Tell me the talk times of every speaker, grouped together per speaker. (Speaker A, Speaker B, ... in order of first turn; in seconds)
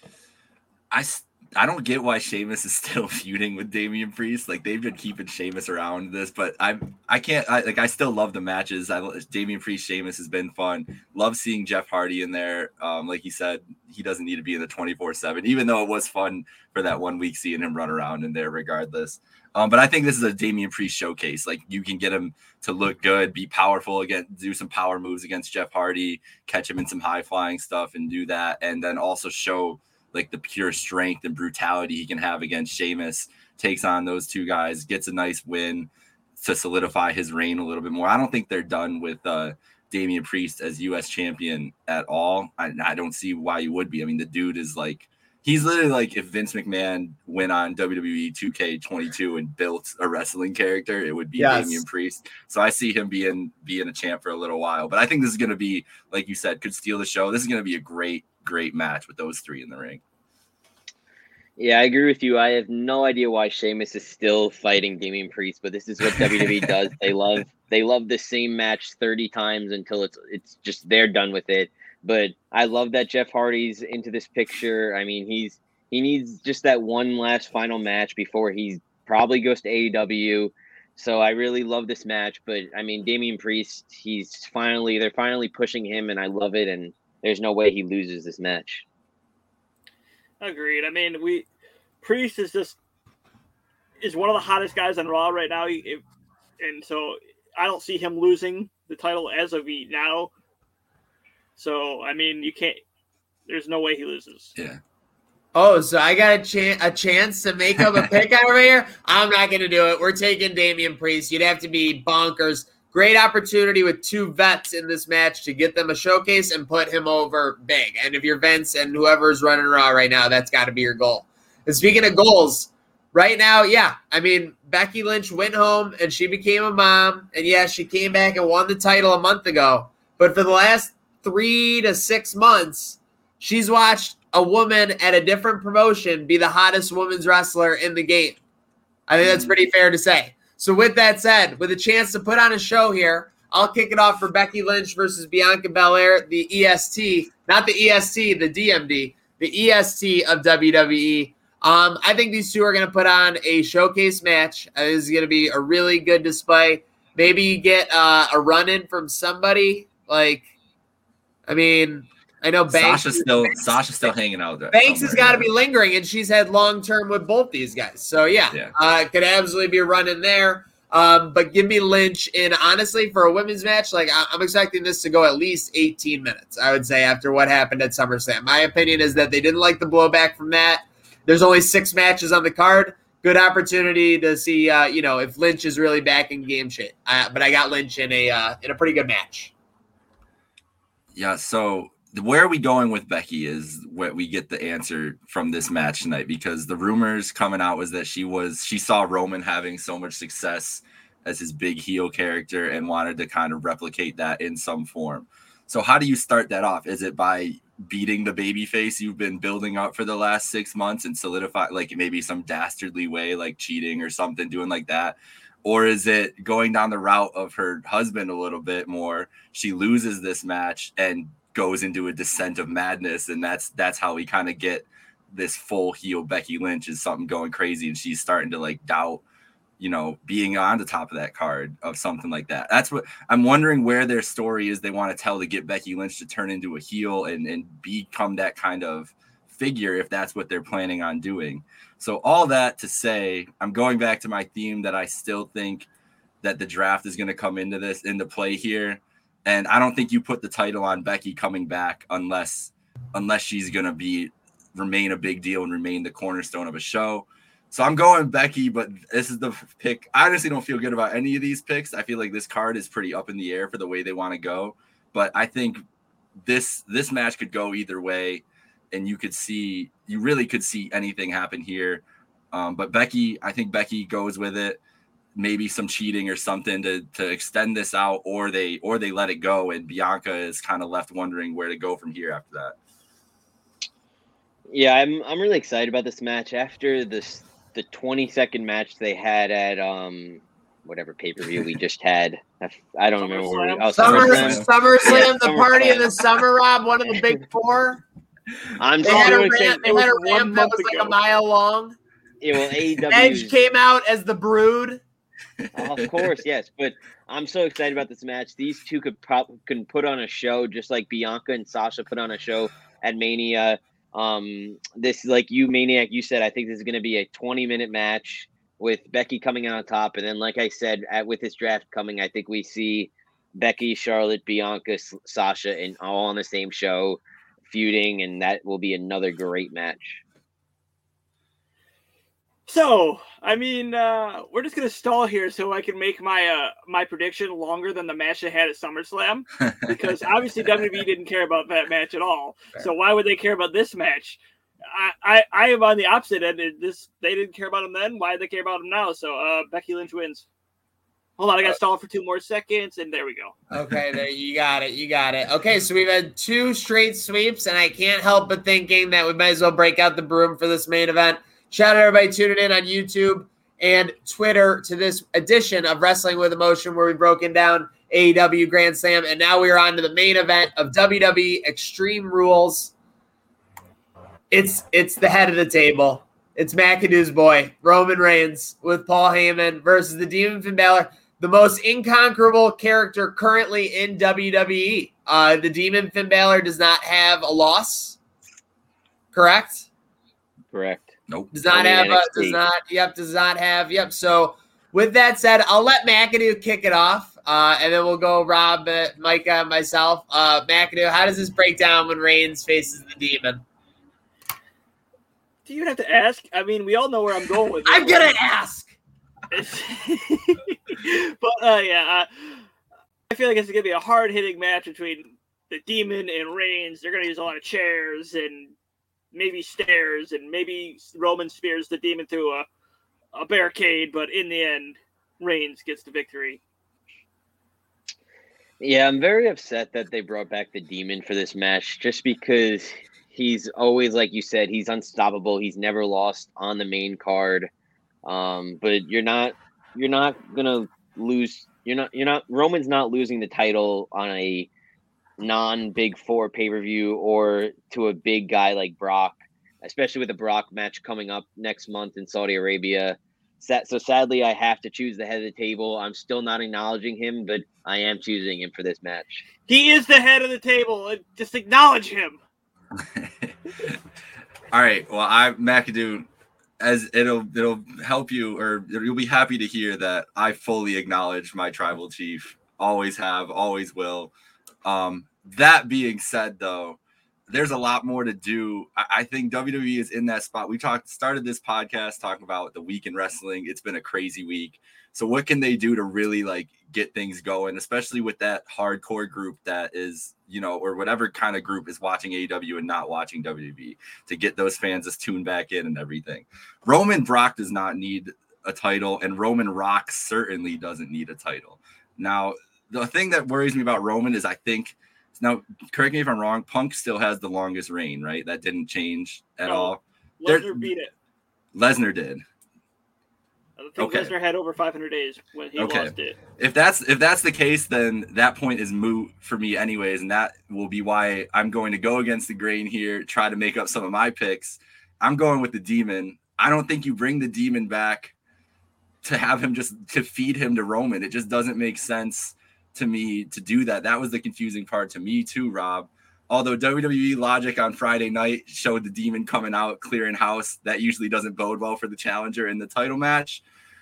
Speaker A: 0.9-60.0, 66.0-66.7, 107.8-108.0, 139.2-139.5, 162.7-165.5, 191.1-229.2, 229.8-245.9, 246.4-265.8, 266.4-274.8, 275.4-282.8, 294.0-294.7, 305.6-306.4, 463.0-463.9, 464.7-466.3, 466.8-474.3, 474.8-510.9, 511.7-512.4, 514.0-514.3, 515.8-528.3, 529.2-543.6
Speaker B: 51.4-51.8, 105.5-138.4, 139.1-160.5, 161.5-163.8, 164.7-189.5, 294.0-298.0, 299.0-302.0, 303.1-305.0, 353.7-372.9, 374.5-388.2, 389.3-389.9, 391.5-403.6, 407.9-408.9
Speaker C: 61.6-88.8, 284.7-296.1, 298.8-299.9, 302.4-303.6, 305.8-330.2, 390.7-391.1, 391.7-392.6, 428.8-437.7, 438.2-444.7, 445.4-459.4
Speaker D: 90.4-91.5, 92.0-92.8, 94.0-96.0, 96.6-100.3, 101.6-102.8, 103.5-104.5, 293.2-294.4, 299.0-301.2, 332.7-344.4, 344.9-350.5, 351.4-353.6, 405.7-408.3, 409.5-412.6, 413.3-418.7, 419.3-422.7, 423.3-426.6, 459.7-462.4, 509.6-511.1, 513.8-516.4